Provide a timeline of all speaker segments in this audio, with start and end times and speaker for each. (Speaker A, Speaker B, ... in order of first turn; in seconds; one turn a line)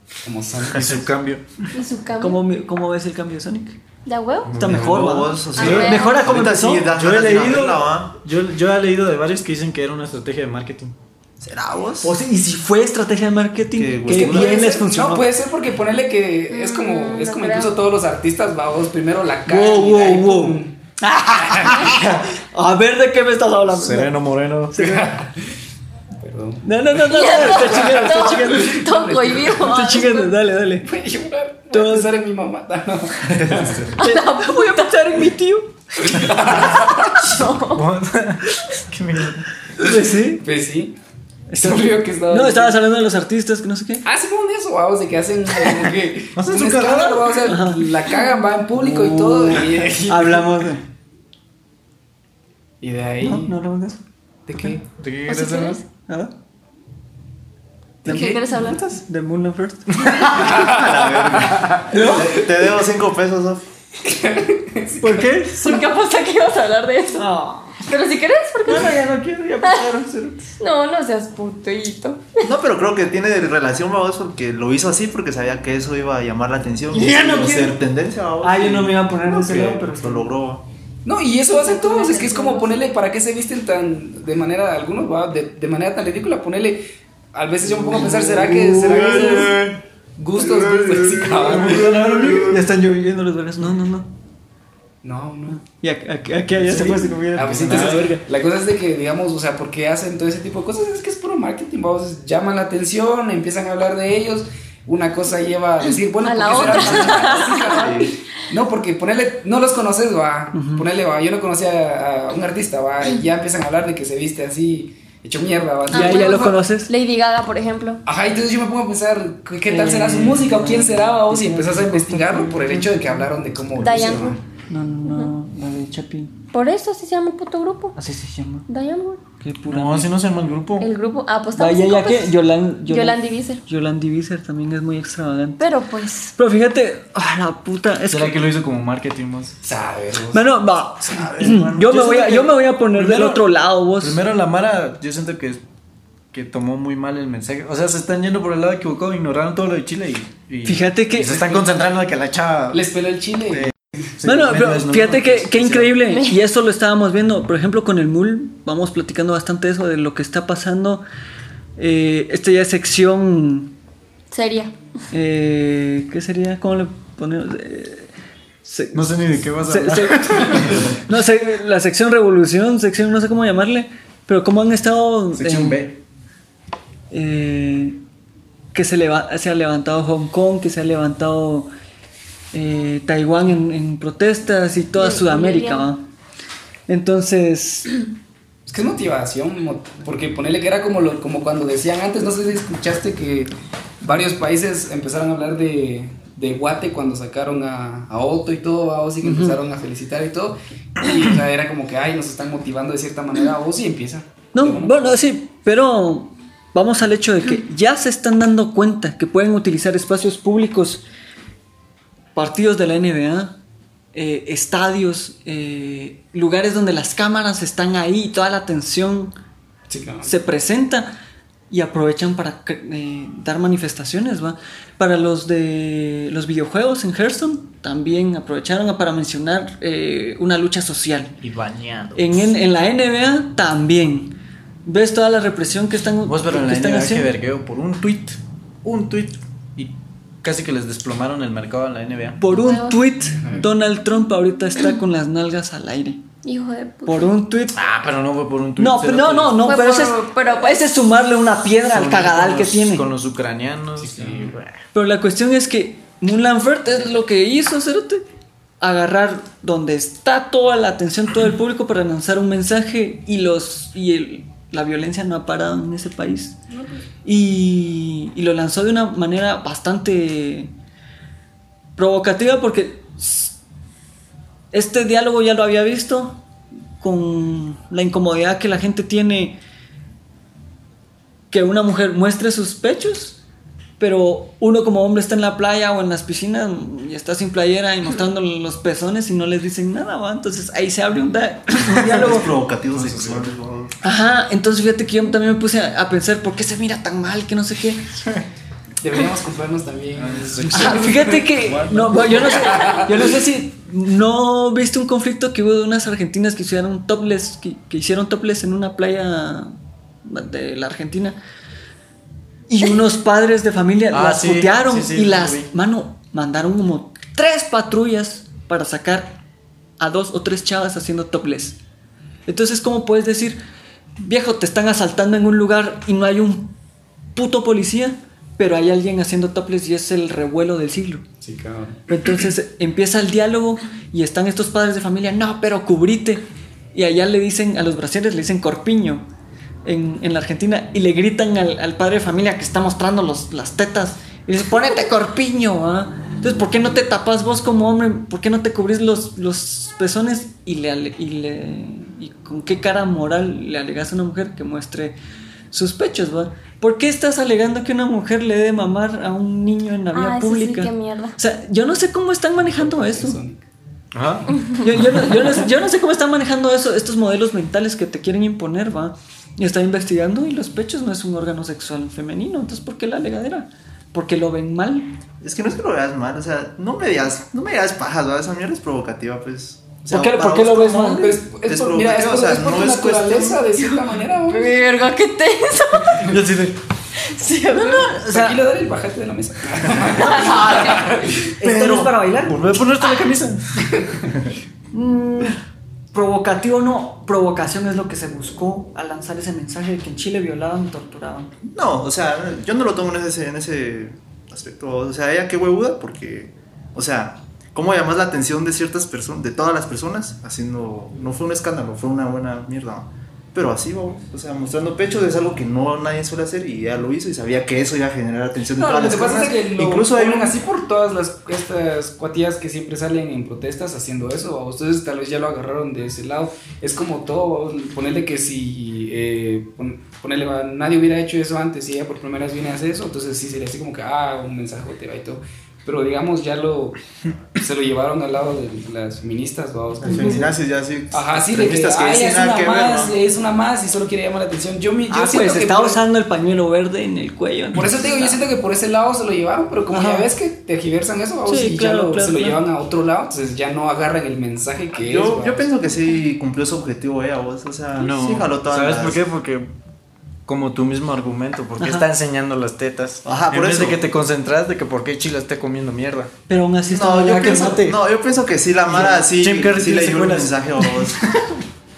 Speaker A: 0.2-1.1
Speaker B: 0.7-1.7
Speaker C: 1.7-2.4
Speaker D: 2.2-3.8
Speaker C: 4.0-4.6
Speaker B: 4.5-10.9
Speaker D: 4.5-6.9
Speaker E: 4.6-8.1
Speaker C: 5.5-6.2
Speaker E: 11.4-12.2
Speaker D: 12.0-15.3
Speaker E: 13.7-14.8
Speaker A: 14.1-20.8
Speaker C: 16.5-17.8
Speaker D: 19.5-24.1
Speaker A: 21.4-21.9
Speaker B: 23.7-25.0
Speaker D: 24.7-25.1
Speaker A: 24.7-25.4
Speaker A: 26.2-26.6
Speaker D: 26.6-28.9
Speaker C: 27.0-30.4
Speaker A: 27.3-29.6
Speaker D: 29.6-30.9
Speaker A: 30.8-33.9
Speaker D: 31.7-32.1
Speaker B: 33.4-33.9
Speaker C: 34.0-35.2
Speaker D: 34.0-36.3
Speaker A: 36.0-37.3
Speaker C: 36.6-37.8
Speaker B: 37.6-39.5
Speaker D: 39.8-40.4
Speaker A: 40.4-41.0
Speaker D: 41.5-44.0
Speaker A: 41.5-42.8
Speaker A: 44.0-50.7
Speaker B: 46.3-47.3
Speaker D: 47.4-48.0
Speaker D: 48.7-50.8
Speaker A: 52.8-53.5
Speaker D: 53.2-54.0
Speaker A: 54.5-54.8
Speaker B: 55.0-55.8
Speaker C: 55.3-55.8
Speaker A: 58.0-58.4
Speaker D: 58.0-60.5
Speaker C: 58.0-58.9
Speaker E: 60.3-63.6
Speaker A: 60.4-61.8
Speaker D: 61.9-62.4
Speaker A: 64.0-65.4
Speaker D: 65.0-65.8
Speaker C: 65.5-67.3
Speaker D: 67.1-67.8
Speaker C: 67.8-69.0
Speaker D: 68.7-70.5
Speaker C: 70.6-72.4
Speaker E: 72.4-80.6
Speaker D: 76.9-77.8
Speaker D: 78.4-80.3
Speaker A: 81.0-89.6
Speaker C: 81.5-82.8
Speaker D: 87.9-89.5
Speaker B: 88.7-89.7
Speaker A: 90.2-92.0
Speaker B: 90.6-92.6
Speaker D: 92.3-94.1
Speaker A: 95.0-95.6
Speaker D: 95.5-98.2
Speaker B: 96.6-97.8
Speaker A: 97.3-116.6
Speaker C: 106.2-108.1
Speaker E: 107.7-108.1
Speaker D: 110.5-110.9
Speaker C: 115.9-118.0
Speaker D: 115.9-116.9
Speaker A: 118.0-124.4
Speaker D: 119.7-123.2
Speaker C: 123.8-124.4
Speaker D: 124.7-126.4
Speaker C: 125.0-125.3
Speaker C: 126.5-128.0
Speaker D: 128.0-128.7
Speaker C: 128.7-129.2
Speaker D: 129.4-130.1
Speaker B: 129.7-130.9
Speaker C: 130.8-133.6
Speaker D: 131.6-135.7
Speaker C: 135.6-136.3
Speaker D: 136.3-138.4
Speaker B: 138.1-139.5
Speaker A: 139.6-140.4
Speaker D: 140.3-144.2
Speaker E: 141.1-142.2
Speaker B: 141.8-145.6
Speaker B: 146.3-152.8
Speaker D: 150.6-151.7
Speaker A: 152.7-153.7
Speaker B: 153.5-155.9
Speaker D: 154.2-161.0
Speaker C: 156.1-156.3
Speaker D: 161.8-163.7
Speaker C: 164.3-164.7
Speaker D: 165.1-168.1
Speaker D: 168.6-175.8
Speaker B: 168.9-171.0
Speaker B: 175.3-176.0
Speaker D: 177.1-178.0
Speaker D: 178.7-181.7
Speaker D: 182.5-186.0
Speaker C: 184.9-185.9
Speaker D: 186.9-187.9
Speaker A: 188.7-205.2
Speaker D: 199.2-199.6
Speaker D: 204.5-211.0
Speaker D: 212.3-213.6
Speaker D: 214.1-219.3
Speaker A: 219.9-220.3
Speaker D: 220.2-221.1
Speaker D: 221.7-231.3
Speaker B: 231.4-232.4
Speaker D: 232.1-237.3
Speaker B: 236.2-242.4
Speaker D: 242.4-246.2
Speaker C: 242.5-243.0
Speaker C: 246.4-247.3
Speaker D: 247.1-247.8
Speaker B: 247.7-249.7
Speaker D: 248.8-253.1
Speaker C: 249.6-250.9
Speaker B: 251.8-254.8
Speaker A: 254.0-254.6
Speaker D: 254.9-258.2
Speaker D: 258.8-266.6
Speaker D: 267.2-270.7
Speaker D: 272.0-273.6
Speaker D: 274.7-276.4
Speaker D: 277.0-279.6
Speaker D: 281.5-283.4
Speaker D: 284.0-292.5
Speaker E: 291.9-294.0
Speaker B: 292.9-293.5
Speaker D: 294.0-298.1
Speaker A: 299.0-301.5
Speaker B: 300.1-302.5
Speaker D: 300.7-311.4
Speaker A: 302.2-303.3
Speaker D: 312.7-319.4
Speaker B: 314.1-315.7
Speaker D: 320.0-321.8
Speaker D: 322.5-323.6
Speaker D: 324.2-326.7
Speaker D: 327.3-331.2
Speaker A: 331.4-332.0
Speaker D: 332.1-339.2
Speaker D: 339.8-355.1
Speaker D: 355.7-363.4
Speaker C: 360.1-361.4
Speaker A: 362.6-363.6
Speaker B: 364.1-365.1
Speaker D: 364.8-375.1
Speaker E: 375.4-383.6
Speaker D: 380.1-381.4
Speaker A: 381.0-384.8
Speaker C: 384.5-386.4
Speaker B: 386.1-386.8
Speaker C: 387.2-388.1
Speaker A: 387.7-391.1
Speaker D: 387.8-388.6
Speaker B: 390.0-393.9
Speaker E: 390.4-391.0
Speaker D: 391.6-392.7
Speaker E: 391.6-392.1
Speaker D: 394.9-395.6
Speaker D: 396.1-401.5
Speaker E: 401.6-420.6
Speaker A: 418.8-437.0
Speaker A: 437.5-440.5
Speaker E: 440.0-443.2
Speaker A: 441.1-446.0
Speaker D: 445.1-448.4
Speaker A: 447.7-455.7
Speaker D: 449.9-450.3
Speaker D: 451.4-452.6
Speaker E: 455.0-459.2
Speaker B: 458.0-459.7
Speaker B: 460.4-466.3
Speaker D: 461.8-462.1
Speaker E: 463.2-464.0
Speaker D: 466.5-467.8
Speaker E: 466.9-471.2
Speaker B: 467.3-468.0
Speaker B: 468.9-470.9